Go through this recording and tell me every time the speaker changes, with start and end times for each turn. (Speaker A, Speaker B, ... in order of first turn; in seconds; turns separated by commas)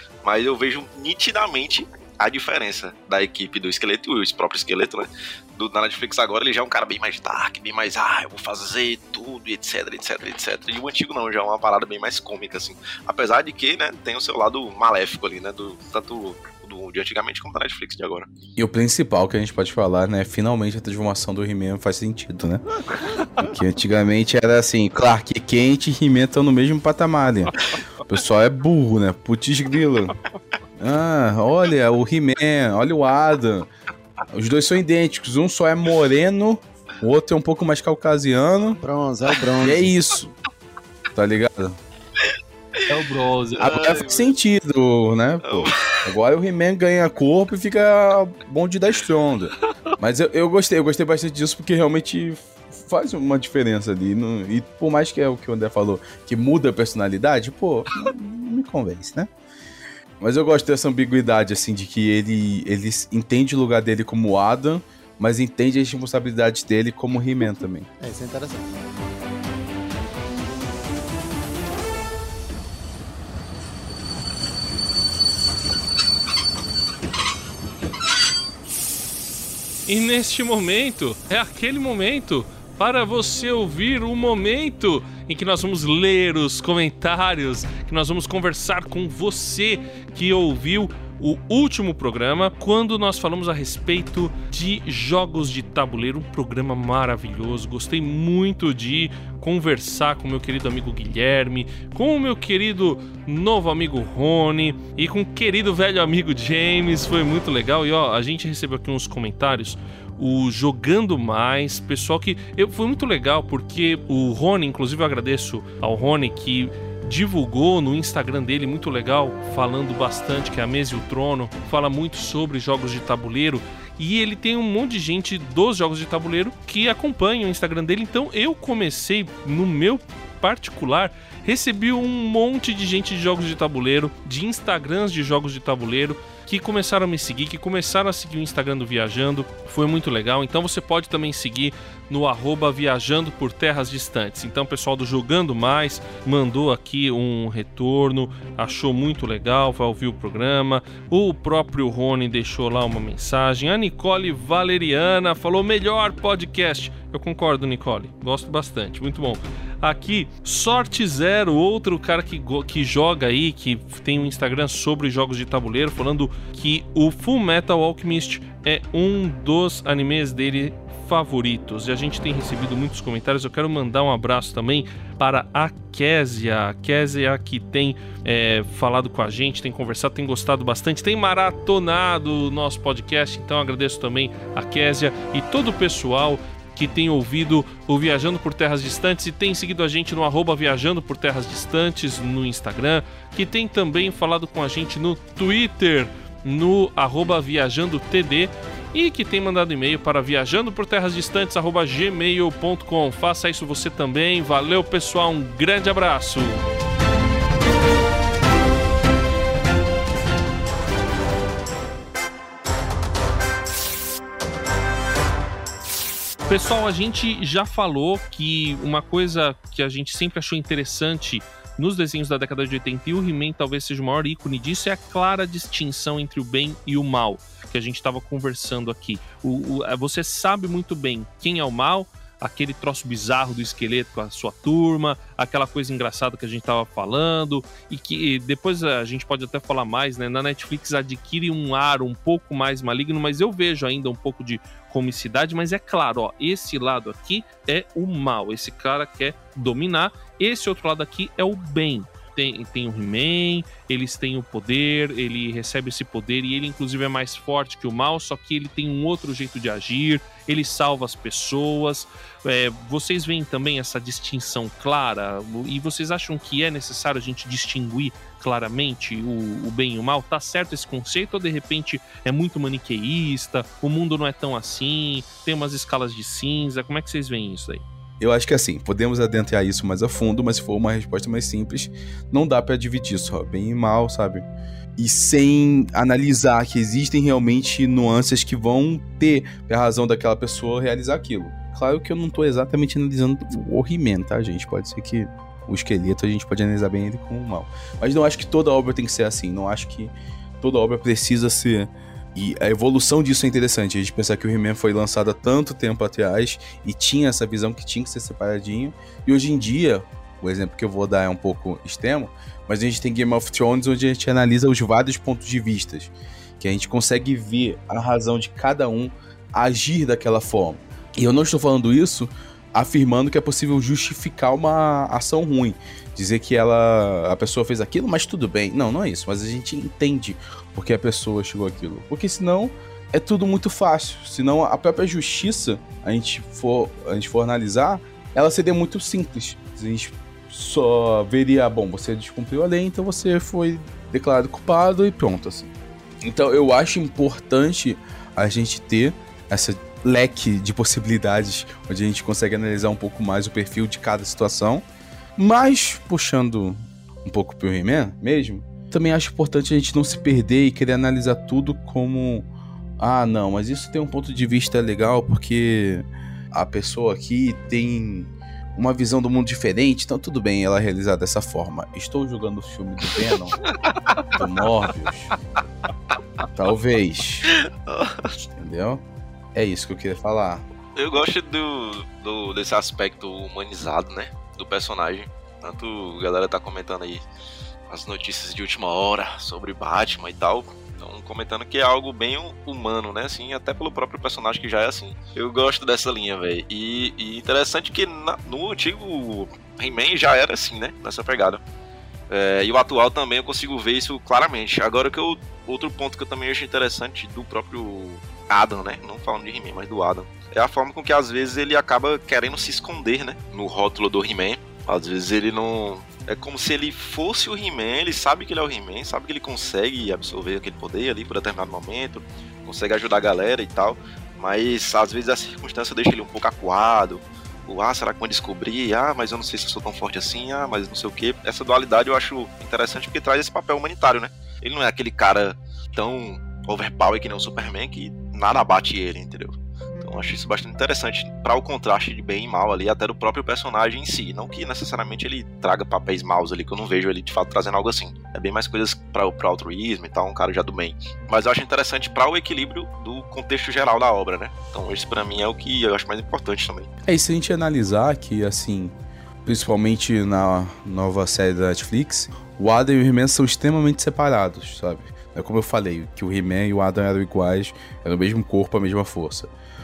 Speaker A: 0.2-18.3, Speaker B: 18.6-22.6, Speaker B: 23.4-30.2, Speaker B: 30.8-33.7, Speaker B: 34.3-38.8, Speaker C: 38.8-40.2, Speaker B: 39.6-40.2, Speaker B: 41.1-41.8, Speaker A: 42.2-42.9, Speaker D: 42.9-43.9, Speaker A: 43.6-44.3, Speaker B: 43.6-59.3, Speaker A: 45.4-46.0, Speaker B: 60.2-67.9, Speaker C: 68.0-68.7, Speaker D: 79.9-206.6, Speaker D: 216.5-277.8, Speaker B: 278.2-284.4, Speaker B: 285.0-345.7, Speaker B: 346.2-354.8, Speaker B: 355.4-362.5, Speaker B: 363.0-373.6, Speaker A: 373.9-374.7, Speaker B: 374.3-375.3, Speaker B: 376.5-377.5, Speaker A: 377.5-378.4, Speaker B: 378.6-379.0, Speaker B: 379.5-380.6, Speaker A: 380.9-387.2, Speaker A: 387.9-401.6, Speaker A: 402.3-456.9, Speaker B: 457.1-469.5